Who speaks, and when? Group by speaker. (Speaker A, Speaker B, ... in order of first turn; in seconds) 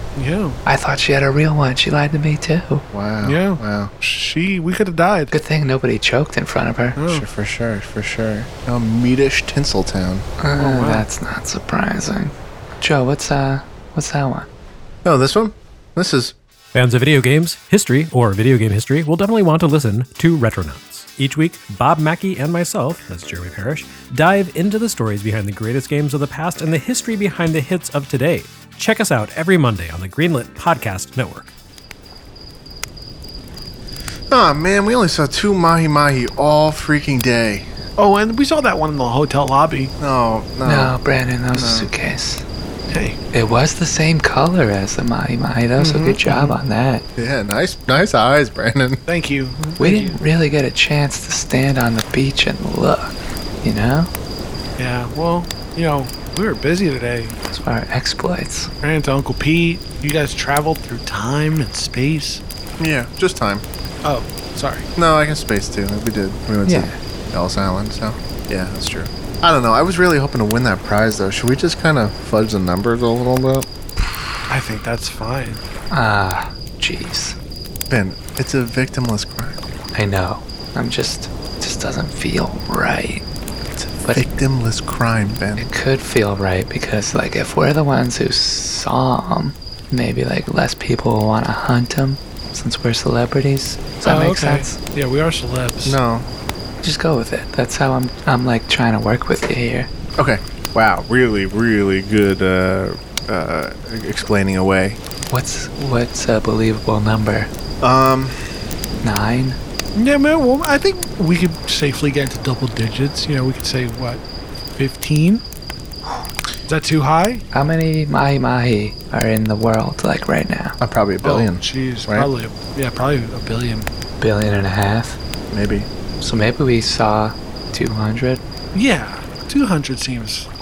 Speaker A: 0.2-0.6, 3.2-5.3, 7.0-7.3, 10.6-11.1, 38.0-39.9, 42.9-43.2, 45.8-46.6, 49.1-50.2, 54.8-57.4, 58.8-62.4, 64.0-64.9, 74.5-75.6, 94.0-96.0, 110.0-114.2, 114.8-115.4, 116.7-117.5, 121.2-123.9, 128.7-130.5
Speaker B: 0.7-2.9, 5.3-7.0, 10.4-14.5, 40.6-42.5, 43.3-47.0, 49.8-54.1, 57.5-58.7, 66.7-67.0, 75.9-77.4, 79.9-84.2, 85.6-94.8, 96.8-99.9, 105.3-107.5, 109.0-109.6, 117.5-120.8, 124.2-125.2, 126.2-128.4
Speaker C: 2.9-3.9, 7.1-10.3, 15.1-16.4, 34.3-37.7, 40.0-41.0, 41.5-41.9, 47.2-49.0, 62.8-63.6, 65.0-73.7, 77.9-79.6, 84.1-85.7, 95.8-96.3, 100.2-105.0, 107.8-108.6, 120.8-122.3, 125.5-125.9
Speaker D: 16.7-31.5